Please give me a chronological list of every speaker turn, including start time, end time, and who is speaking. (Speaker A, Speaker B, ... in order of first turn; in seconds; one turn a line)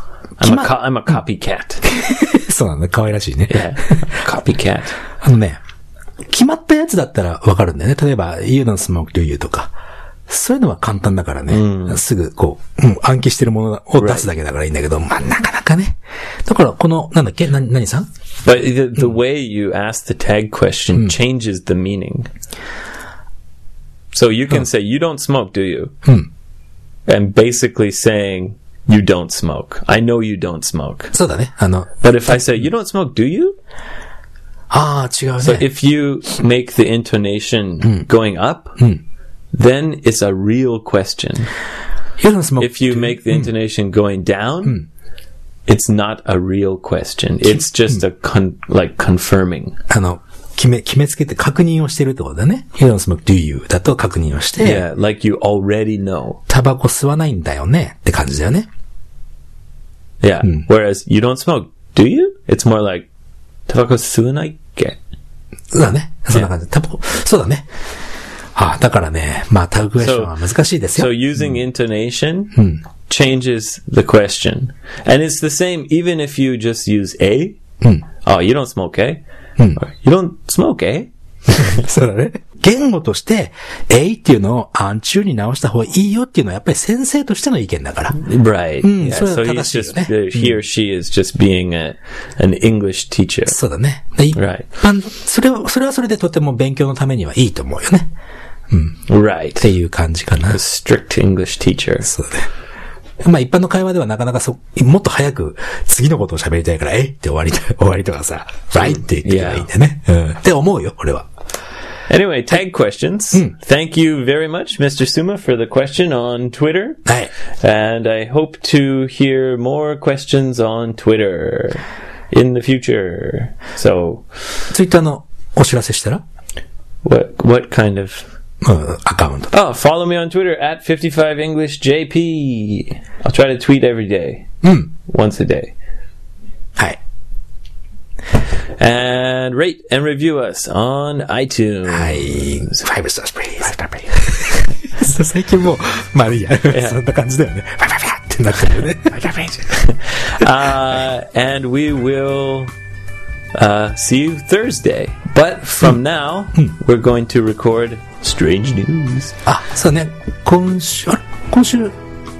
Speaker A: 0.4-0.7
Speaker B: 0.4-1.9
Speaker A: 1.9-4.0
Speaker B: 3.5-5.0
Speaker A: 5.2-5.6
Speaker A: 6.2-9.7
Speaker A: 10.3-18.1
Speaker B: 11.5-12.0
Speaker B: 14.0-14.3
Speaker B: 18.4-22.3
Speaker B: 24.1-25.9
Speaker B: 27.1-31.1
Speaker A: 31.1-31.9
Speaker B: 32.0-33.6
Speaker A: 34.7-35.7
Speaker B: 35.4-38.8
Speaker B: 39.5-41.5
Speaker A: 42.2-43.5
Speaker B: 42.6-44.8
Speaker B: 45.7-49.8
Speaker A: 49.9-54.9
Speaker B: 54.6-56.4
Speaker A: 56.5-58.7
Speaker B: 60.2-63.1
Speaker B: 63.7-65.0
Speaker A: 65.7-67.7
Speaker A: 68.6-71.6
Speaker B: 70.0-70.3
Speaker B: 71.0-77.6
Speaker A: 72.5-72.8
Speaker B: 78.2-79.2
Speaker B: 79.8-81.8
Speaker A: 81.5-88.2
Speaker B: 88.2-93.6
Speaker A: 88.8-90.5
Speaker A: 93.5-98.1
Speaker B: 94.3-94.7
Speaker A: 98.7-99.0
Speaker B: 99.1-99.7
Speaker A: 99.6-100.6
Speaker B: 100.5-102.1
Speaker A: 102.1-102.5
Speaker A: 103.2-111.3
Speaker B: 108.8-109.7
Speaker B: 112.1-117.0
Speaker A: 117.1-117.3
Speaker B: 117.6-124.4
Speaker A: 124.7-126.2
Speaker B: 127.0-128.3
Speaker A: 128.6-129.5
Speaker B: 129.5-135.8
Speaker A: 134.6-134.9
Speaker B: 138.8-142.8
Speaker A: 141.9-150.5
Speaker B: 146.7-147.0
Speaker B: 149.8-152.7
Speaker B: 153.6-159.4
Speaker A: 159.5-161.9